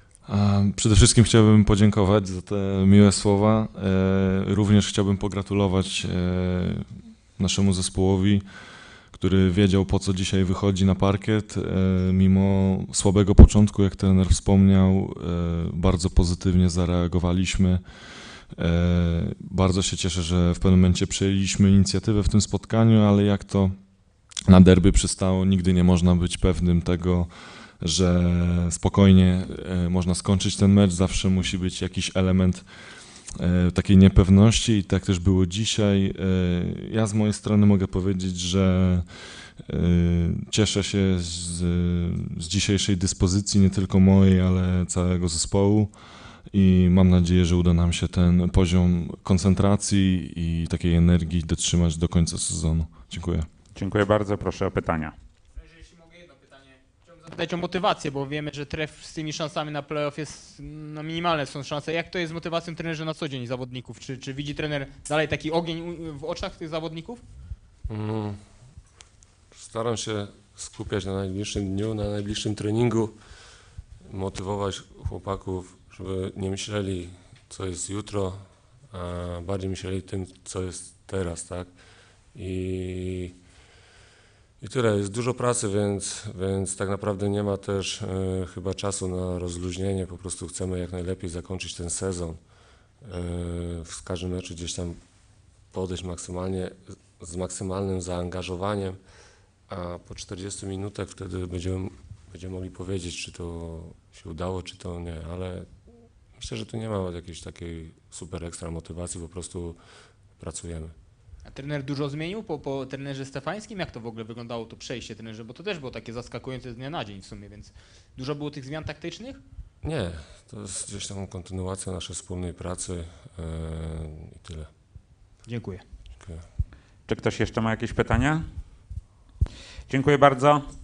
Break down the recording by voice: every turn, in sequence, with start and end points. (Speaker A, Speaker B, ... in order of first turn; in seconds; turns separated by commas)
Speaker A: 0.2-53.5, Speaker B: 53.7-55.1, Speaker C: 55.6-67.2, Speaker D: 67.9-68.5, Speaker D: 69.5-73.2, Speaker D: 74.0-81.8, Speaker D: 82.3-83.3, Speaker D: 84.6-92.4, Speaker D: 93.0-95.0, Speaker D: 95.7-99.0, Speaker D: 99.7-109.8, Speaker D: 110.3-110.9, Speaker C: 111.4-119.4, Speaker D: 119.8-124.7, Speaker C: 125.4-125.8, Speaker D: 126.2-126.5, Speaker B: 127.1-128.4, Speaker B: 129.9-130.7